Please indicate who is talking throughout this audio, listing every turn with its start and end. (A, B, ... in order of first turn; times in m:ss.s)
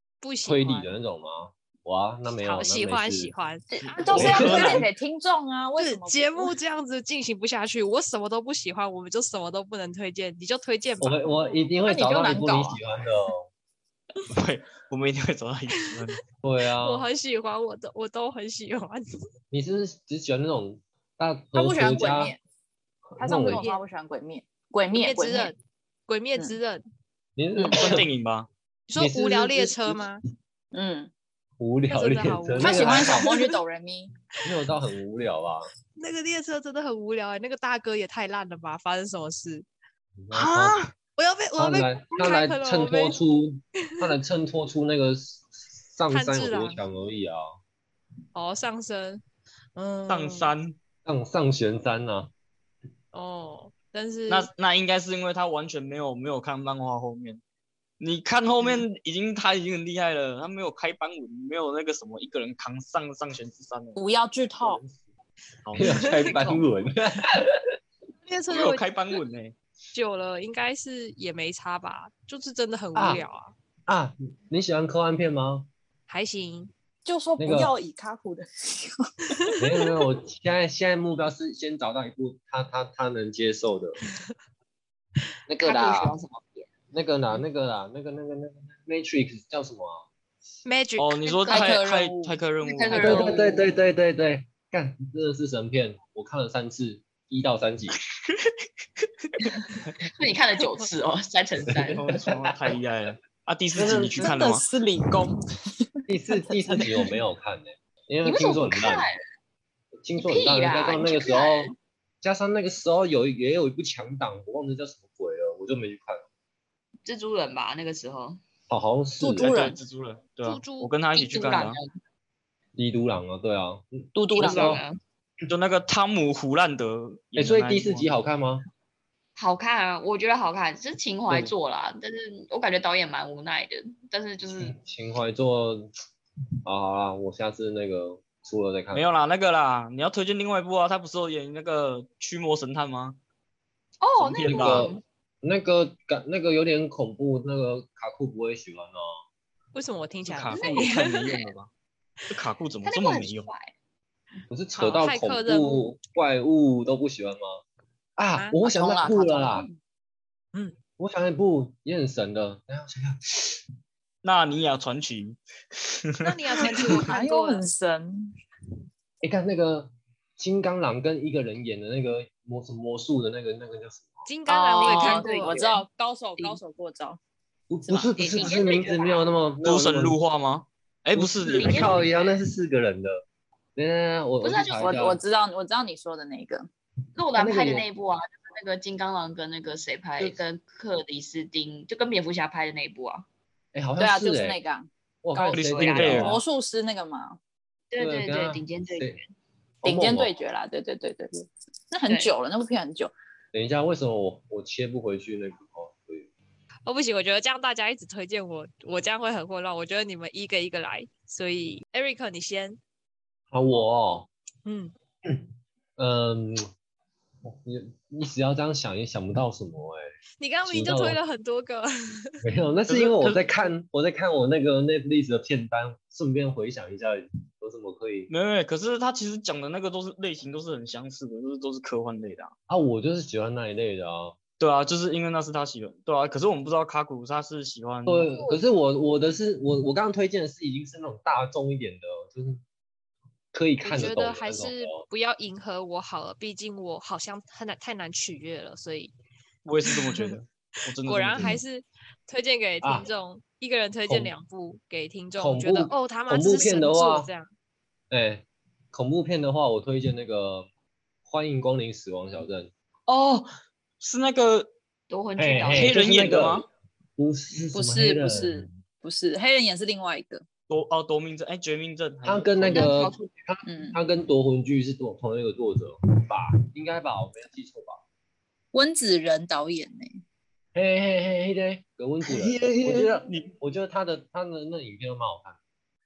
0:00.2-0:00.9 A
0:00.4-0:03.3 B
0:02.4-0:04.8 A
0:03.7-0:04.8 C
0:03.9-0:06.5 D
0:04.1-0:04.9 E
0:04.1-0:04.7 B
0:05.8-0:12.3 A
0:11.0-0:13.5 B
0:11.8-0:12.8 D
0:14.3-0:16.2 E
0:16.4-0:17.1 B
0:16.8-0:19.0 A
0:19.5-0:22.4 B
0:21.6-0:22.4 D
0:23.1-0:23.7 B
0:23.2-0:25.5 D
0:23.5-0:23.8 A
0:24.9-0:25.6 A
0:26.1-0:26.8 A
0:27.4-0:28.1 B
0:27.8-0:28.5 E
0:28.9-0:30.2 A
0:29.0-0:30.1 B
0:30.7-0:31.1 D
0:31.6-0:33.3 B
0:31.9-0:33.6 A
0:32.6-0:34.1 D
0:34.4-0:35.7 B
0:36.0-0:39.7 A
0:40.2-0:40.8 B
0:40.3-0:40.9 E
0:41.2-0:43.2 A
0:41.6-0:47.5 B
0:46.1-0:46.8 A
0:48.4-0:49.2 A
0:49.8-0:50.5 A
0:50.1-0:50.8 E
0:51.0-0:52.3 B
0:53.1-0:54.5 A
0:54.3-0:57.4 E
0:58.0-1:04.0 E
1:04.0-1:04.8 D
1:04.6-1:05.0 B
1:05.6-1:06.4 E
1:05.8-1:06.6 A
1:05.8-1:07.6 B
1:08.2-1:08.9 A
1:08.5-1:09.6 E
1:09.9-1:13.5 A
1:13.0-1:13.2 B
1:13.9-1:15.7 B
1:16.1-1:16.7 A
1:17.0-1:19.6 D
1:17.4-1:17.8 B
1:19.6-1:24.0 B
1:25.5-1:26.2 B
1:25.6-1:26.7 C
1:26.9-1:30.0 B
1:30.6-1:31.7 A
1:31.0-1:33.3 E
1:31.5-1:32.4 D
1:32.6-1:33.7 C
1:33.0-1:38.0 B
1:38.2-1:40.0 E
1:40.2-1:42.0 C
1:41.8-1:42.7 B
1:41.9-1:44.7 E
1:43.8-1:44.4 B
1:44.2-1:47.1 D
1:46.1-1:49.1 B
1:48.2-1:49.2 C
1:50.0-1:56.2 B
1:50.2-1:51.7 C
1:57.0-1:58.4 C
1:58.7-1:59.6 B
1:59.2-1:59.8 D
1:59.4-2:01.8 E
2:00.4-2:00.9 A
2:01.1-2:01.9 C
2:02.8-2:04.8 B
2:04.2-2:04.8 D
2:04.3-2:05.0 C
2:05.5-2:08.1 E
2:07.4-2:08.6 B
2:09.4-2:14.8 C
2:14.5-2:15.9 B
2:16.7-2:19.0 B
2:18.9-2:23.2 E
2:24.0-2:25.0 C
2:24.2-2:24.9 E
2:24.2-2:29.1 B
2:29.7-2:31.3 A
2:30.3-2:31.7 E
2:30.5-2:30.9 C
2:32.3-2:33.5 E
2:32.8-2:33.7 C
2:34.5-2:37.6 B
2:34.8-2:35.9 A
2:38.2-2:39.7 B
2:38.6-2:39.8 D
2:41.0-2:43.6 B
2:44.2-2:47.0 E
2:46.2-2:47.7 A
2:46.9-2:48.3 D
2:49.2-2:54.2 B
2:54.3-2:55.5 A
2:54.5-2:57.2 D
2:54.8-2:55.8 C
2:57.7-3:00.2 B
2:57.9-2:58.8 D
2:58.2-2:59.3 C
2:59.6-3:02.0 E
3:01.2-3:03.2 B
3:01.4-3:02.4 C
3:03.8-3:05.2 B
3:04.4-3:04.9 C
3:04.8-3:06.7 D
3:07.2-3:13.3 C
3:07.4-3:07.9 B
3:13.7-3:14.6 B
3:14.0-3:17.4 D
3:15.2-3:16.4 B
3:15.5-3:16.4 E
3:15.7-3:16.2 C
3:17.9-3:19.3 C
3:18.0-3:19.2 B
3:19.8-3:20.3 B
3:19.8-3:23.1 D
3:22.1-3:22.3 C
3:23.5-3:26.3 B
3:26.9-3:32.8 A
3:33.5-3:34.3 B
3:34.6-3:34.9 A
3:36.0-3:36.7 B
3:37.4-3:40.1 B
3:40.4-3:42.4 A
3:40.6-3:41.2 B
3:42.4-3:48.3 B
3:42.9-3:43.5 E
3:48.3-3:52.5 E
3:52.7-3:54.4 B
3:54.6-3:58.3 E
3:58.1-4:02.6 B
3:58.3-3:58.6 C
4:03.5-4:05.0 B
4:03.8-4:09.1 A
4:09.7-4:11.6 E
4:09.9-4:10.4 A
4:11.0-4:17.5 A
4:12.8-4:13.1 B
4:15.4-4:17.3 B
4:18.1-4:20.7 B
4:21.3-4:22.7 B
4:23.1-4:23.5 E
4:24.0-4:24.7 E
4:25.1-4:26.0 C
4:25.4-4:26.7 B
4:25.7-4:26.7 E
4:27.2-4:28.8 B
4:27.7-4:30.4 D
4:30.7-4:32.9 E
4:32.2-4:38.0 B
4:32.7-4:33.3 C
4:33.6-4:34.0 D
4:38.7-4:40.2 D
4:40.8-4:45.6 B
4:42.2-4:43.5 E